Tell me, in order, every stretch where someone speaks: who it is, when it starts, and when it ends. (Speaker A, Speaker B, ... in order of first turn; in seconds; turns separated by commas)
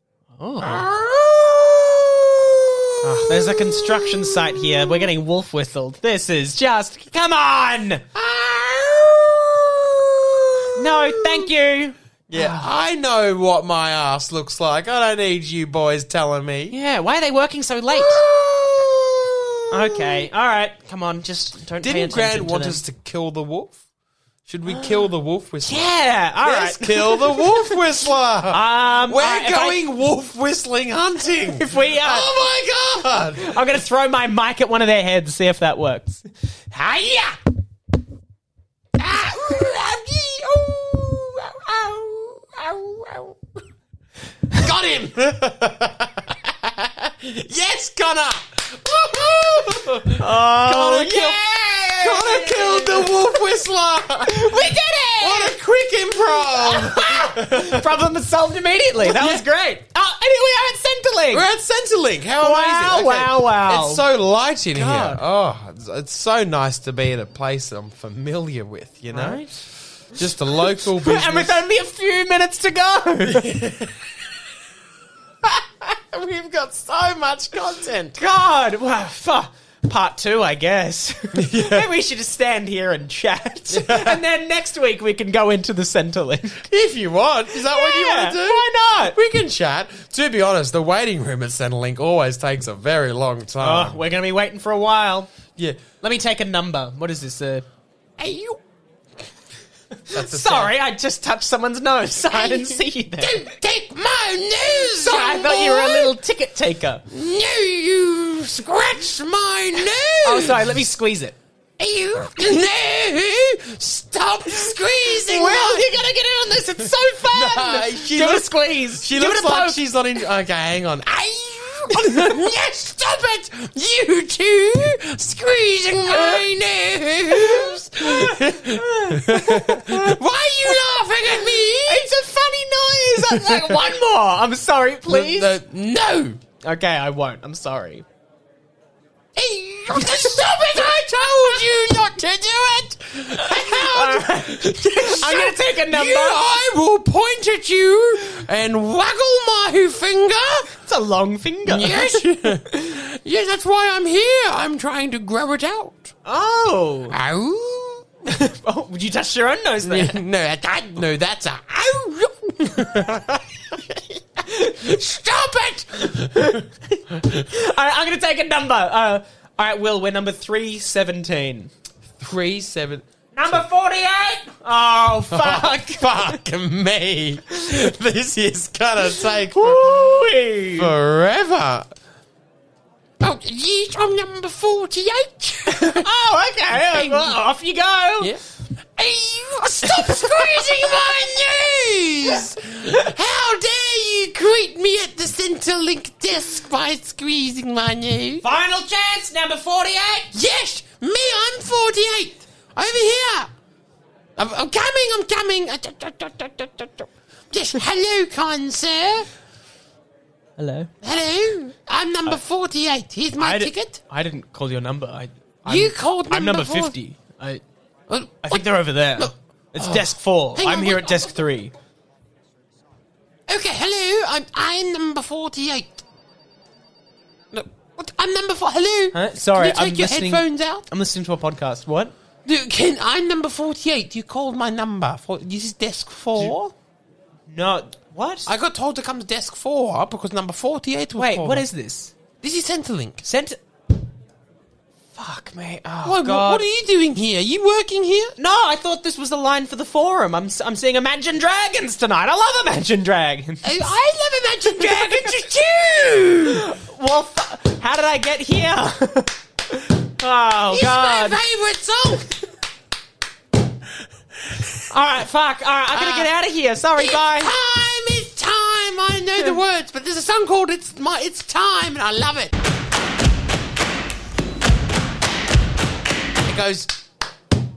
Speaker A: 0.3-0.8, Speaker B: 0.6-5.0, Speaker A: 3.0-8.1, Speaker B: 8.1-11.5, Speaker A: 10.7-12.7, Speaker B: 12.3-16.7, Speaker A: 16.7-18.2, Speaker B: 17.9-20.2, Speaker A: 19.7-22.8, Speaker B: 21.8-23.8, Speaker B: 24.5-33.6, Speaker A: 24.7-25.0, Speaker A: 25.6-27.8, Speaker A: 28.5-29.8, Speaker A: 31.3-32.4, Speaker A: 33.0-36.3, Speaker B: 36.7-37.4, Speaker B: 39.0-43.4, Speaker B: 44.5-57.9, Speaker A: 50.1-53.5, Speaker A: 54.2-55.5, Speaker A: 56.2-61.5, Speaker B: 59.0-59.4, Speaker B: 61.3-71.6, Speaker A: 62.4-64.0, Speaker A: 64.7-65.2, Speaker A: 69.1-69.6, Speaker A: 70.7-73.5, Speaker B: 73.3-74.1, Speaker B: 75.4-78.2, Speaker A: 78.2-86.6, Speaker B: 81.3-81.8, Speaker B: 83.7-84.2, Speaker B: 86.7-94.0, Speaker A: 87.5-89.2, Speaker A: 93.6-95.3, Speaker B: 95.5-95.8, Speaker A: 96.0-97.6, Speaker B: 98.2-98.6, Speaker A: 100.0-103.5, Speaker B: 100.1-100.7, Speaker B: 102.3-106.1, Speaker A: 104.7-107.0, Speaker B: 107.1-110.7, Speaker A: 110.2-111.3, Speaker B: 111.8-115.9, Speaker A: 114.7-119.8, Speaker B: 117.3-132.1, Speaker A: 121.9-122.4, Speaker A: 126.1-126.5, Speaker A: 127.3-135.5, Speaker B: 133.2-133.8, Speaker B: 135.1-136.4, Speaker A: 136.6-138.0, Speaker B: 139.3-150.7, Speaker A: 139.9-141.6, Speaker A: 143.4-146.5, Speaker A: 150.7-153.1, Speaker B: 151.7-156.2, Speaker A: 156.2-157.2, Speaker B: 157.1-158.1, Speaker A: 158.2-160.2, Speaker B: 159.8-167.5, Speaker A: 164.4-165.0, Speaker A: 166.2-171.7, Speaker B: 172.2-173.6, Speaker A: 173.3-176.3, Speaker B: 175.3-181.9, Speaker A: 179.1-180.9, Speaker B: 183.2-186.1, Speaker A: 185.7-188.3, Speaker B: 186.7-187.4, Speaker B: 189.0-198.4, Speaker A: 189.8-191.1, Speaker A: 198.4-200.3, Speaker B: 200.3-203.5, Speaker B: 204.4-209.3, Speaker A: 210.6-210.9, Speaker B: 211.0-214.0, Speaker A: 213.4-217.6, Speaker B: 215.6-216.9, Speaker B: 218.1-218.6, Speaker A: 218.4-221.7, Speaker B: 219.2-221.3, Speaker B: 223.5-226.0, Speaker B: 227.5-230.9, Speaker A: 229.1-232.1, Speaker B: 232.4-236.6, Speaker A: 236.3-236.7, Speaker A: 237.5-238.5, Speaker B: 238.4-241.7, Speaker A: 241.2-242.1, Speaker B: 242.4-243.2, Speaker A: 243.2-243.6, Speaker A: 245.1-246.7, Speaker B: 246.0-248.4, Speaker A: 248.4-253.9, Speaker B: 253.6-256.7, Speaker A: 254.6-255.4, Speaker A: 256.5-261.4, Speaker B: 260.7-262.3, Speaker A: 264.9-267.5, Speaker B: 265.9-266.3, Speaker B: 267.0-272.5, Speaker B: 276.4-276.9